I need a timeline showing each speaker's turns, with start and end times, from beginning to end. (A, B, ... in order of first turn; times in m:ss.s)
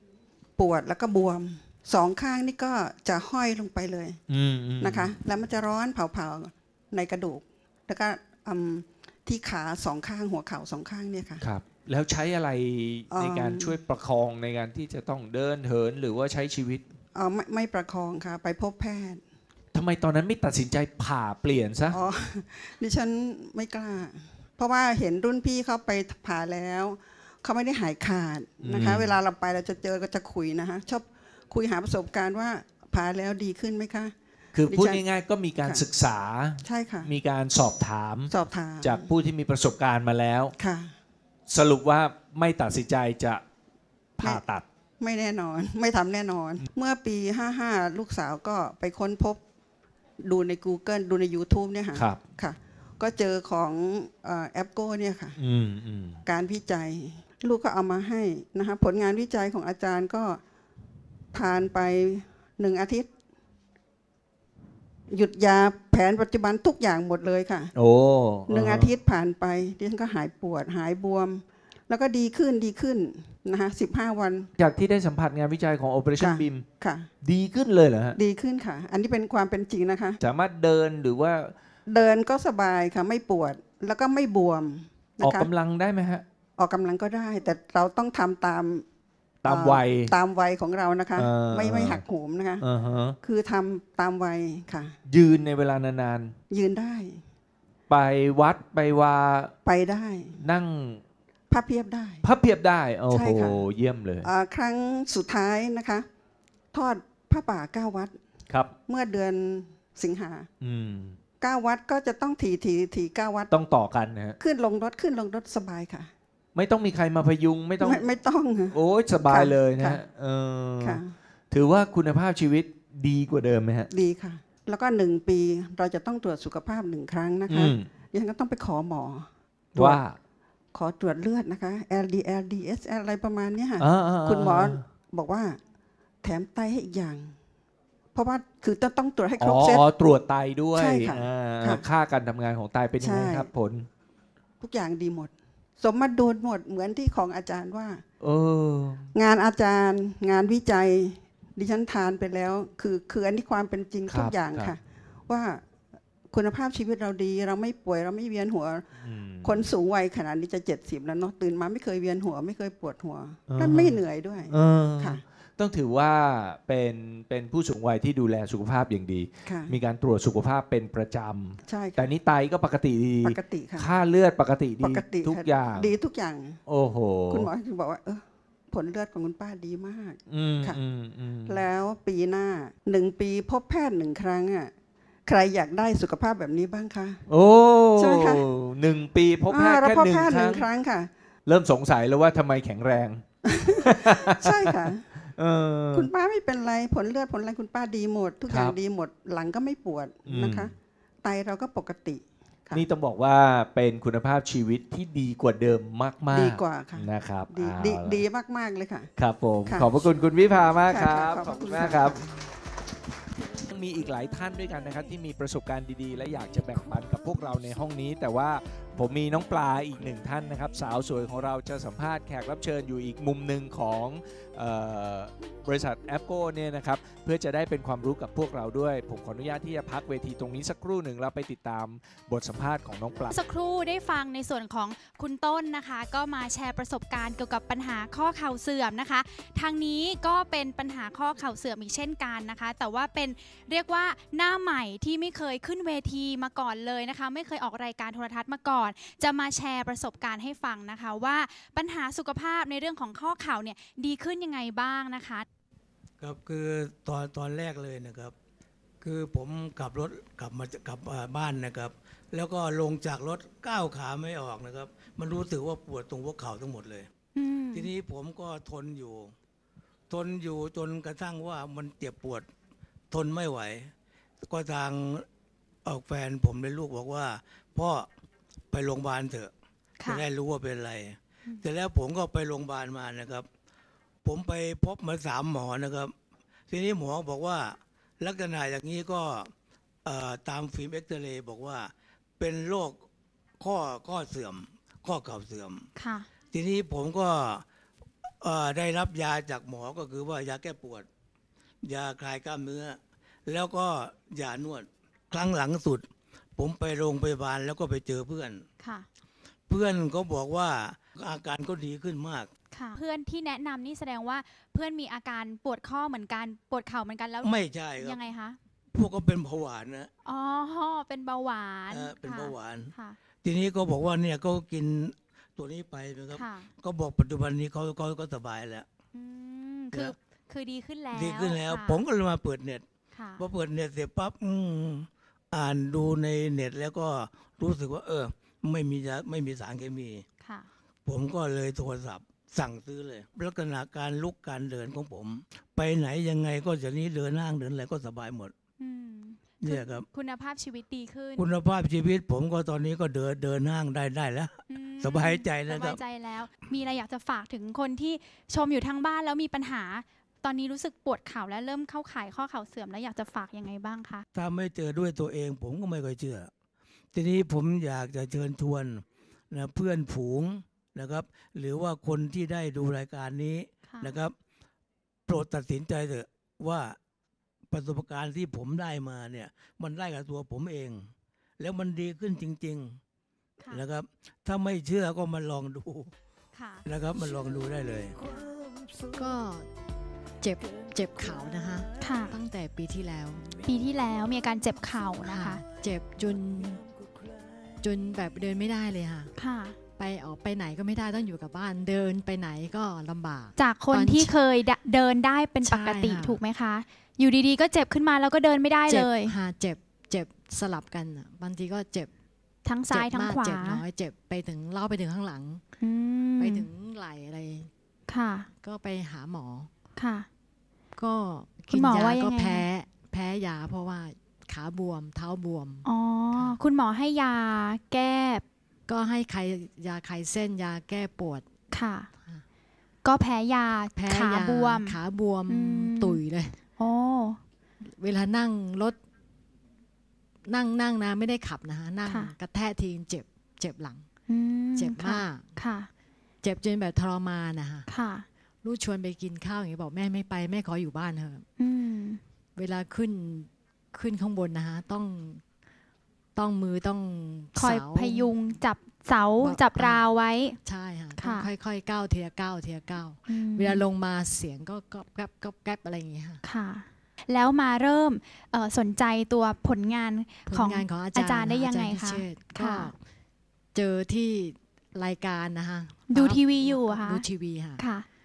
0:00.6-0:04.2 A
0:04.3-0:05.1 B
0:04.8-0:11.4 A
0:11.4-0:16.8 B
0:13.1-0:13.8 A
0:17.1-0:19.2 A
0:19.7-0:22.0 B
0:21.9-0:35.0 A
0:28.6-0:29.2 B
0:34.5-0:40.5 B
0:35.6-0:35.8 A
0:36.6-0:37.1 A
0:38.3-0:39.1 A
0:40.6-0:40.9 A
0:41.5-0:43.4 B
0:44.2-0:44.6 B
0:45.0-0:49.4 A
0:50.2-0:55.4 A
0:52.0-0:52.2 B
0:55.4-0:56.2 B
0:56.2-1:00.4 A
1:01.3-1:03.1 A
1:05.1-1:07.7 A
1:07.7-1:08.9 B
1:08.5-1:14.5 A
1:14.6-1:16.6 B
1:16.2-1:17.1 A
1:17.2-1:18.2 B
1:18.1-1:20.2 A
1:20.2-1:21.6 B
1:21.9-1:25.5 A
1:25.2-1:26.2 B
1:26.6-1:28.8 A
1:29.4-1:30.1 B
1:29.4-1:32.6 A
1:31.2-1:32.0 B
1:32.6-1:33.2 B
1:33.2-1:34.9 A
1:35.0-1:36.4 B
1:36.5-1:37.2 A
1:37.9-1:39.5 B
1:39.6-1:40.3 A
1:40.3-1:41.0 B
1:41.5-1:42.2 A
1:42.2-1:44.3 B
1:43.1-1:43.6 A
1:44.2-1:46.1 A
1:46.7-1:48.2 A
1:48.5-1:48.7 B
1:48.9-1:50.5 A
1:50.6-1:51.2 B
1:51.4-1:53.5 A
1:53.5-1:54.4 B
1:54.4-1:56.1 A
1:56.5-1:58.1 B
1:57.8-2:00.0 A
1:58.7-2:03.9 B
2:00.8-2:01.1 A
2:03.9-2:10.0 A
2:07.5-2:07.9 B
2:09.7-2:10.2 B
2:10.7-2:15.6 A
2:13.8-2:14.8 B
2:16.2-2:17.4 A
2:18.1-2:19.9 A
2:19.4-2:23.9 B
2:20.8-2:21.8 A
2:23.0-2:23.5 A
2:24.6-2:28.0 A
2:28.2-2:29.1 B
2:29.2-2:35.6 A
2:34.1-2:34.7 B
2:36.3-2:38.8 A
2:39.0-2:39.6 B
2:39.4-2:45.2 A
2:43.5-2:55.9 B
2:49.4-2:49.7 A
2:51.6-2:52.1 A
2:53.2-2:53.9 A
2:54.8-2:56.6 A
2:56.6-2:57.5 B
2:57.3-3:00.8 A
3:00.3-3:01.6 B
3:01.4-3:04.7 A
3:05.2-3:07.2 A
3:07.3-3:10.6 B
3:08.0-3:08.4 A
3:09.5-3:11.1 A
3:11.4-3:16.1 B
3:13.6-3:15.0 A
3:15.9-3:22.8 A
3:18.5-3:18.7 B
3:20.2-3:20.7 B
3:22.7-3:28.2 B
3:26.3-3:29.1 A
3:29.2-3:32.2 B
3:29.6-3:30.0 A
3:30.9-3:32.4 A
3:33.7-3:53.3 B
3:53.3-4:15.4 C
4:16.2-4:18.3 D
4:19.0-4:27.1 D
4:27.4-4:27.9 C
4:27.7-4:29.3 D
4:30.1-4:32.5 D
4:33.1-4:33.9 D
4:34.4-4:35.2 D
4:35.8-4:38.1 D
4:38.7-4:39.5 D
4:40.0-4:43.5 D
4:44.2-4:46.1 D
4:46.7-4:49.5 D
4:50.0-4:53.0 D
4:53.6-4:55.9 D
4:56.0-4:56.2 C
4:56.5-4:57.6 D
4:58.4-5:01.1 D
5:01.8-5:08.6 D
5:08.8-5:09.1 C
5:09.7-5:12.5 D
5:12.7-5:18.6 C
5:17.4-5:18.2 D
5:18.9-5:20.1 D
5:20.2-5:23.2 C
5:21.9-5:28.9 D
5:26.3-5:26.7 C
5:29.1-5:32.0 C
5:31.1-5:32.8 D
5:33.1-5:33.4 C
5:33.4-5:40.2 D
5:40.4-5:40.7 C
5:41.0-5:48.5 D
5:48.8-5:51.4 C
5:49.6-5:50.0 D
5:51.4-5:56.0 D
5:54.7-6:04.2 C
6:04.3-6:06.5 D
6:07.1-6:14.4 D
6:13.9-6:14.2 C
6:15.3-6:17.0 D
6:17.7-6:21.1 D
6:21.6-6:23.0 D
6:23.7-6:26.1 D
6:26.6-6:26.8 C
6:26.8-6:28.2 D
6:28.2-6:28.5 C
6:29.1-6:29.7 E
6:30.4-6:33.6 E
6:32.0-6:32.4 C
6:33.7-6:35.6 C
6:35.2-6:36.8 E
6:37.8-6:39.3 E
6:39.4-6:39.8 C
6:40.0-6:44.4 E
6:43.6-6:49.4 C
6:45.6-6:46.4 E
6:48.9-6:52.1 E
6:52.6-6:53.8 C
6:52.9-6:55.6 E
6:55.8-6:56.7 C
6:56.4-6:57.7 E
6:58.1-6:58.5 C
6:58.6-6:59.7 E
7:00.0-7:00.3 C
7:01.0-7:06.6 E
7:01.7-7:02.7 C
7:05.8-7:08.4 C
7:08.9-7:11.5 E
7:11.7-7:12.1 C
7:13.0-7:16.2 C
7:14.0-7:16.6 E
7:16.8-7:17.4 C
7:17.8-7:19.0 E
7:20.4-7:24.0 E
7:22.0-7:22.3 C
7:24.3-7:25.9 C
7:24.8-7:25.5 E
7:26.4-7:27.9 E
7:27.9-7:28.2 C
7:28.6-7:31.4 E
7:31.6-7:32.2 C
7:32.6-7:35.4 E
7:36.4-7:38.6 E
7:37.6-7:40.6 C
7:39.4-7:46.4 E
7:41.2-7:41.5 C
7:43.3-7:43.8 C
7:46.4-7:52.9 C
7:50.5-7:53.0 E
7:53.7-7:57.8 E
7:56.1-7:57.2 C
7:57.8-7:58.0 C